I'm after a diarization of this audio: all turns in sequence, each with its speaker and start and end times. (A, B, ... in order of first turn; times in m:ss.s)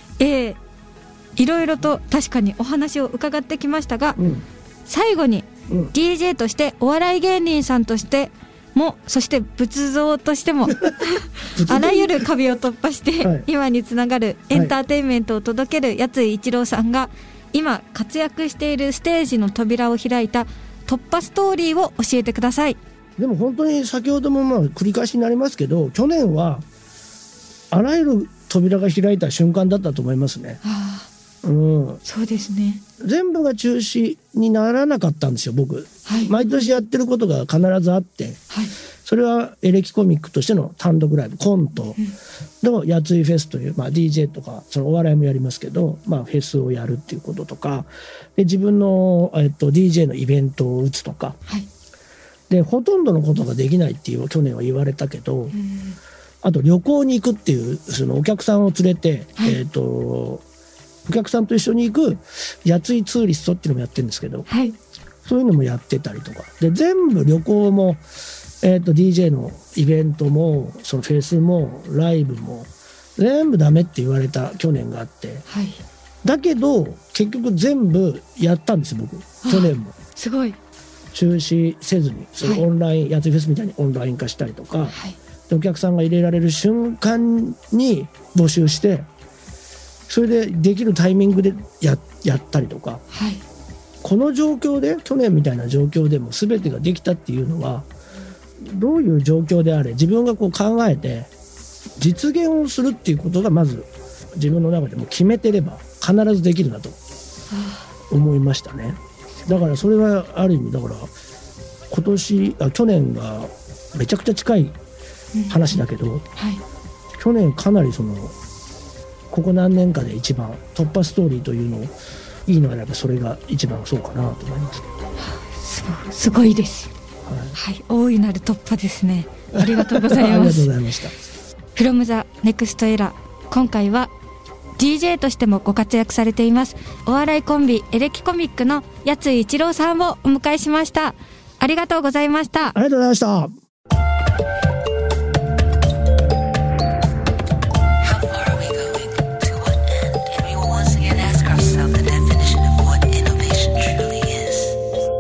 0:00.2-0:00.6 A
0:01.4-0:04.2 A
0:04.2-0:04.4 B
0:04.9-0:22.8 A
0:11.5-0:12.2 B
0:13.2-0:13.5 B
0:23.2-0:26.6 B
0:27.7-0:30.6 B
0:30.6-0:31.1 A
0:31.4-0:32.0 B
0:32.0-0:32.8 A
0:33.0-0:38.4 B
0:36.0-0:36.5 A
0:39.0-0:42.0 B
0:42.6-0:51.4 B
0:52.5-0:55.6 B
0:55.5-0:56.0 A
0:56.4-1:00.4 B
1:01.1-1:04.5 B
1:04.5-1:04.8 A
1:05.2-1:08.0 B
1:08.6-1:15.4 B
1:15.5-1:15.8 A
1:16.2-1:19.9 B
1:19.4-1:20.6 A
1:21.1-1:24.9 B
1:24.9-1:25.2 A
1:25.5-1:29.1 B
1:30.1-1:33.0 B
1:33.1-1:33.4 A
1:34.0-1:37.9 B
1:38.6-1:41.3 B
1:42.0-1:47.0 B
1:47.5-1:47.9 A
1:48.1-1:51.1 B
1:51.9-1:54.8 B
1:55.3-1:55.8 A
1:55.5-1:56.2 B
1:56.4-1:56.6 A
1:57.2-1:58.3 B
1:59.3-2:01.9 B
2:02.5-2:04.9 B
2:05.2-2:06.9 A
2:07.2-2:07.5 B
2:07.5-2:10.7 A
2:09.5-2:11.1 B
2:11.7-2:14.1 A
2:14.8-2:22.8 A
2:22.7-2:23.5 B
2:28.0-2:34.8 C